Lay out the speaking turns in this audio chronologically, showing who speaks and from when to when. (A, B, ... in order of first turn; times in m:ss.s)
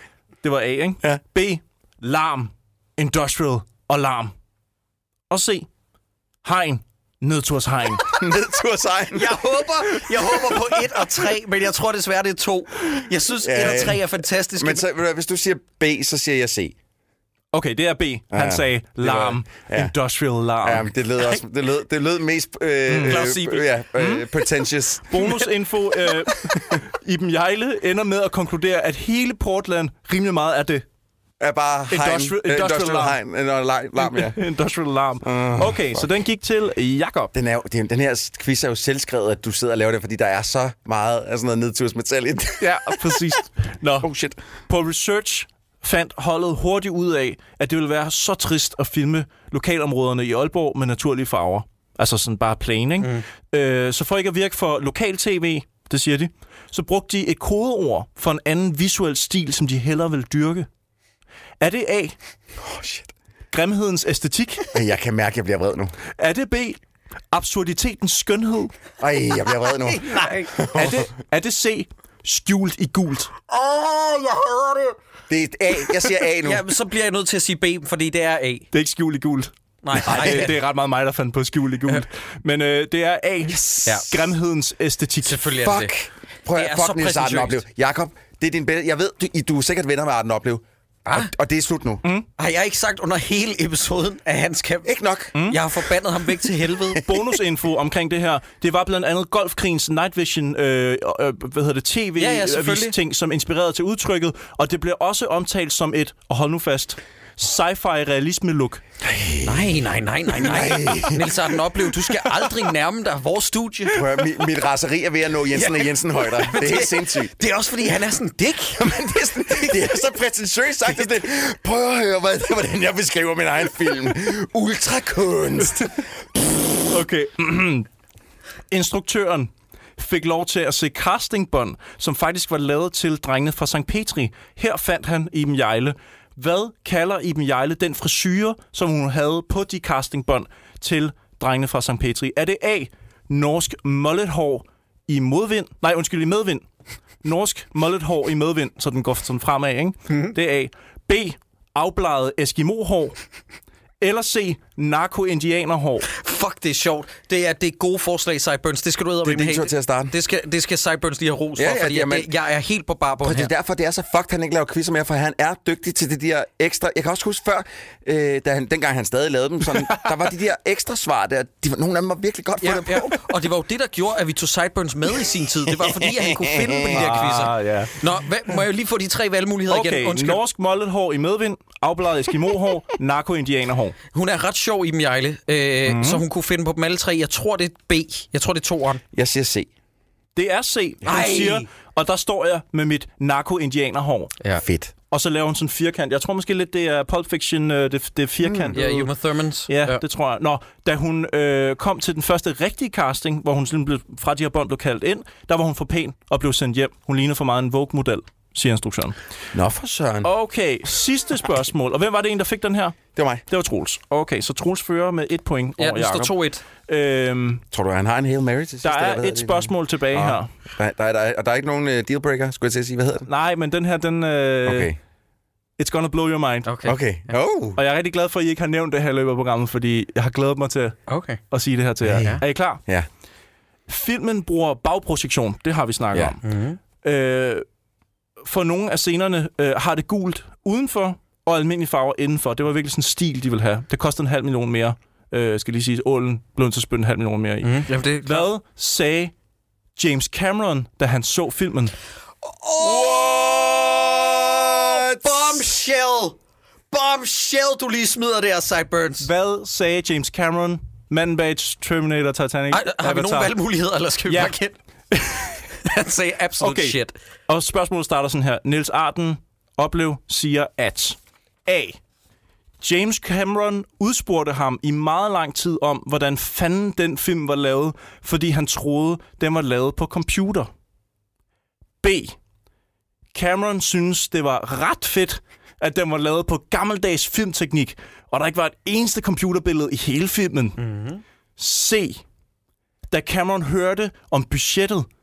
0:00.4-0:04.3 A
0:05.3-0:05.7 A
0:06.4-0:08.1 A
0:08.1-0:09.4 B
0:09.1-0:14.8 C
0:13.4-0:14.0 B
0:14.6-0:16.7 B
0:17.5-0:20.9 A
0:18.3-0:19.9 B
0:20.6-0:25.3 B
0:22.9-0:23.3 A
0:23.0-0:23.6 C
0:24.0-0:24.3 A
0:25.1-0:30.8 A
0:31.4-0:34.4 B
0:31.9-0:33.2 A
0:34.0-0:37.3 A
0:35.2-0:36.1 B
0:37.3-0:43.4 B
0:42.6-0:44.1 A
0:44.0-0:44.4 B
0:44.7-1:00.7 A
1:01.6-1:02.2 A
1:02.6-1:03.1 B
1:03.5-1:04.7 A
1:04.7-1:05.9 B
1:06.2-1:06.8 A
1:07.3-1:08.7 A
1:09.0-1:11.1 B
1:09.8-1:10.6 C
1:10.7-1:13.4 A
1:13.5-1:14.8 C
1:15.3-1:16.6 B
1:16.4-1:18.6 C
1:18.7-1:25.4 A
1:19.8-1:20.6 C
1:23.5-1:24.0 B
1:25.2-1:25.9 C
1:25.6-1:32.0 B
1:26.5-1:27.6 C
1:32.4-1:34.9 C
1:34.8-1:35.4 B
1:35.3-1:35.6 A
1:35.5-1:37.0 C
1:37.0-1:48.8 A
1:42.2-1:42.9 C
1:49.0-1:49.8 B
1:49.4-1:54.0 C
1:50.3-1:51.3 B
1:53.9-1:57.3 B
1:55.5-1:59.9 C
1:58.8-2:06.0 B
2:06.9-2:07.9 A
2:08.7-2:26.6 A
2:27.2-2:33.2 A
2:34.0-2:36.0 A
2:36.1-2:43.5 C
2:39.2-2:40.1 B
2:41.6-2:42.3 B
2:43.2-2:53.2 B
2:52.6-3:00.4 C
2:55.8-2:57.1 B
2:56.9-2:57.9 A
2:59.7-3:04.0 A
3:04.1-3:09.0 C
3:05.8-3:06.2 A
3:09.1-3:09.7 B
3:10.4-3:14.3 A
3:11.0-3:11.6 C
3:14.6-3:14.9 B
3:15.1-3:19.1 A
3:18.4-3:18.7 B
3:18.7-3:20.0 C
3:19.7-3:29.2 A
3:29.5-3:30.3 B
3:30.2-3:37.6 A
3:33.1-3:33.4 B
3:35.8-3:36.6 C
3:37.7-3:43.3 B
3:38.8-3:40.5 A
3:43.3-3:44.9 A
3:44.6-3:45.0 B
3:45.8-3:46.7 A
3:46.6-3:47.0 C
3:46.8-3:47.8 B
3:47.8-3:51.0 A
3:51.1-3:51.4 C
3:51.5-3:52.8 A
3:52.0-3:53.1 B
3:53.9-3:56.4 A
3:56.4-3:56.8 C
3:57.0-3:57.6 A
3:58.4-4:09.3 A
4:07.6-4:08.5 C
4:10.0-4:11.9 A
4:12.4-4:16.4 C
4:12.8-4:15.3 B
4:16.9-4:19.3 C
4:19.2-4:23.5 A
4:22.7-4:24.8 C
4:24.3-4:24.5 A
4:25.1-4:25.6 A
4:25.8-4:27.1 C
4:26.6-4:32.0 A
4:32.8-4:40.7 A
4:42.0-4:42.4 A
4:43.3-4:50.8 A
4:50.8-4:51.2 C
4:51.6-4:52.2 A
4:53.1-4:55.1 A